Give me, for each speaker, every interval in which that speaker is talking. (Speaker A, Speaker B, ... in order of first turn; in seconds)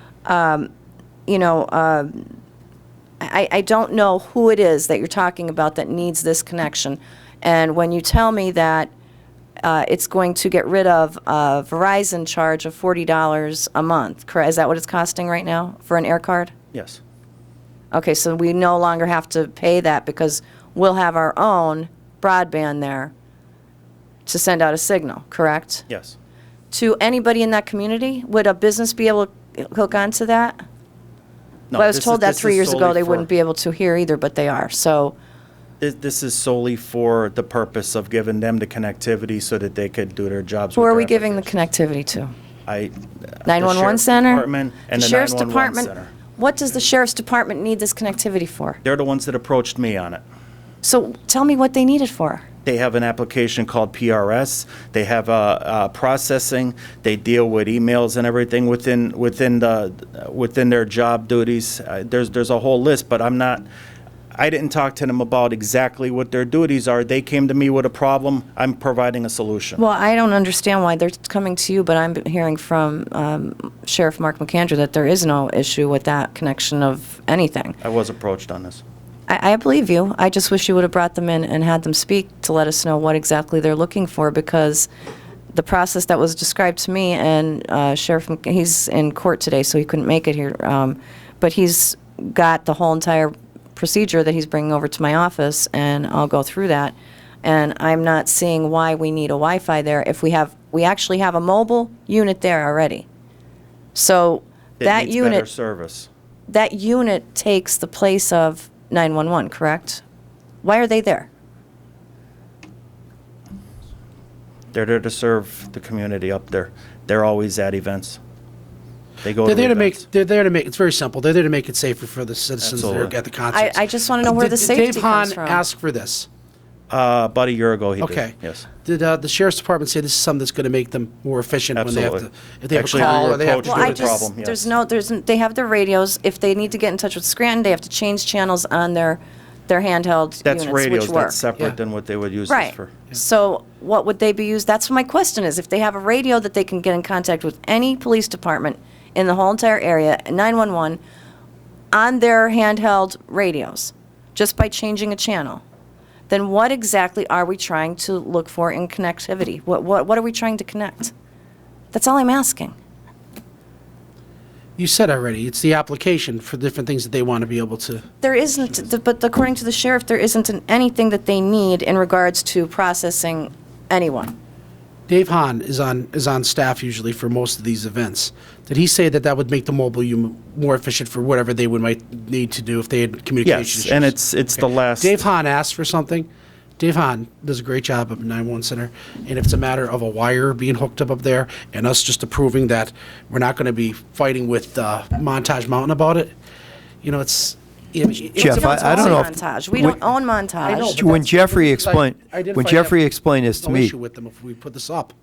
Speaker A: 0.2-0.7, 1.3-2.3, 3.2-8.9, 9.6-16.5, 17.9-23.1, 24.3-25.9, 26.7-30.6, 31.7-35.1, 40.8-42.3, 43.5-48.8, 50.8-52.5, 69.8-77.8, 79.3-84.9, 85.5-103.1, 104.0-105.5, 106.5-110.0, 110.6-111.3, 123.5-125.6, 132.9-141.4, 142.5-151.0, 151.9-155.6, 156.3-161.1, 161.9-162.8, 168.2-174.4, 198.4-200.9
Speaker B: 16.7-17.0, 25.9-26.2, 31.7-33.3, 35.8-41.5, 42.7-46.1, 48.8-50.2, 52.6-63.6, 64.3-69.8, 77.8-78.8, 104.8-106.1, 114.7-118.2, 119.2-120.0, 122.6-123.1, 126.9-128.7, 131.8-134.7, 140.4-142.9, 183.4-185.2
Speaker C: 119.5-126.3, 128.0-134.2, 164.8-168.1, 175.1-196.3, 197.0-199.3, 200.7-203.0, 203.6-205.1
Speaker D: 198.4-200.0, 200.8-203.9